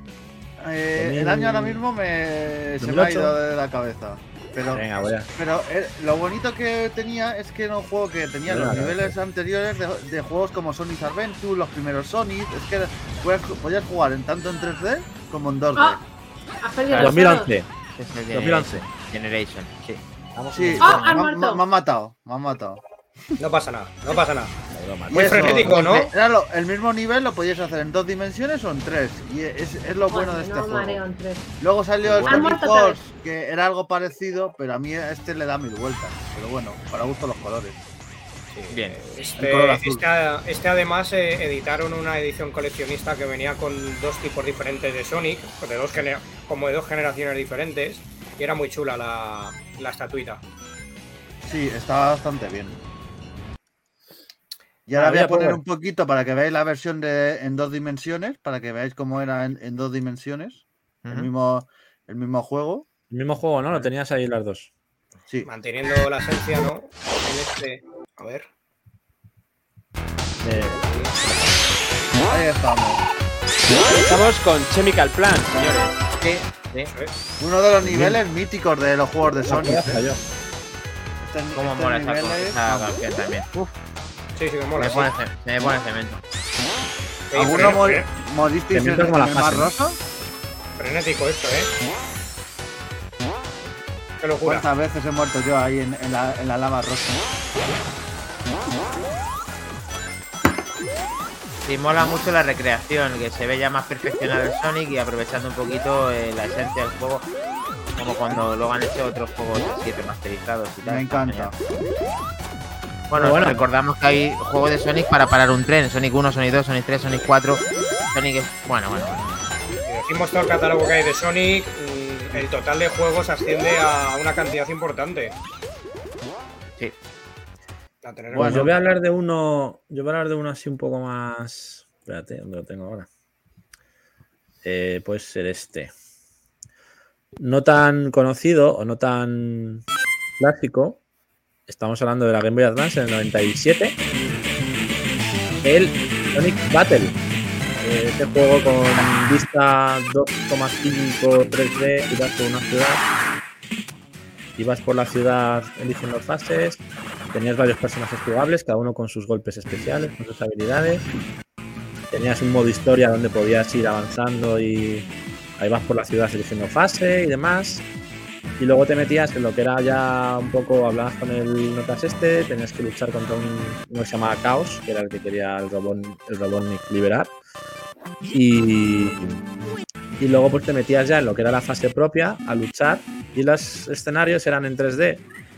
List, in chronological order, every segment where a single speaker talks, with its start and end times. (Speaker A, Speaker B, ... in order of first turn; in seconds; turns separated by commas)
Speaker A: 0.6-16.0, Speaker B: 0.9-1.8, Speaker B: 2.8-3.4, Speaker B: 4.7-5.3, Speaker B: 8.5-9.2, Speaker C: 15.7-16.0, Speaker C: 16.6-17.5, Speaker D: 16.9-17.2, Speaker B: 17.0-17.7, Speaker D: 17.9-20.0, Speaker B: 18.3-18.8, Speaker B: 20.4-21.1, Speaker A: 20.5-22.8, Speaker C: 20.8-21.6, Speaker E: 23.4-24.6, Speaker B: 24.7-25.8, Speaker A: 25.1-31.0, Speaker E: 25.1-26.1, Speaker D: 25.4-26.1, Speaker C: 30.1-31.5, Speaker A: 31.6-37.8, Speaker D: 32.0-32.5, Speaker C: 32.2-33.0, Speaker E: 38.5-50.4, Speaker D: 38.7-39.0, Speaker A: 39.4-40.0, Speaker A: 51.4-52.8, Speaker A: 54.9-62.9, Speaker B: 55.0-55.6, Speaker D: 61.0-61.3, Speaker B: 63.1-64.7, Speaker E: 65.4-68.5, Speaker B: 70.4-70.8, Speaker E: 70.6-71.2, Speaker A: 72.3-73.0, Speaker F: 73.7-76.1, Speaker D: 76.2-76.9, Speaker E: 76.9-77.1, Speaker A: 77.4-80.0, Speaker B: 77.8-78.2, Speaker B: 79.4-80.2, Speaker A: 81.2-82.9, Speaker D: 81.6-83.8, Speaker E: 84.4-85.1, Speaker D: 84.8-86.2, Speaker E: 87.3-88.1, Speaker A: 87.3-90.0, Speaker B: 88.7-89.7, Speaker E: 90.8-91.7, Speaker E: 94.2-94.7, Speaker A: 94.4-97.2, Speaker D: 101.6-107.3, Speaker D: 108.0-111.5, Speaker A: 110.8-111.6, Speaker D: 113.1-119.4, Speaker B: 113.2-113.6, Speaker E: 119.9-125.4, Speaker E: 128.0-128.7, Speaker A: 128.3-128.7, Speaker B: 128.3-133.1, Speaker B: 134.6-135.9, Speaker B: 137.4-139.8, Speaker B: 140.4-141.0, Speaker B: 141.7-144.0, Speaker B: 145.6-147.2, Speaker B: 147.8-153.0, Speaker B: 154.6-156.8, Speaker B: 157.3-161.1, Speaker B: 162.1-165.1, Speaker B: 165.6-167.8, Speaker B: 168.6-177.3, Speaker B: 178.3-179.4, Speaker B: 180.2-185.2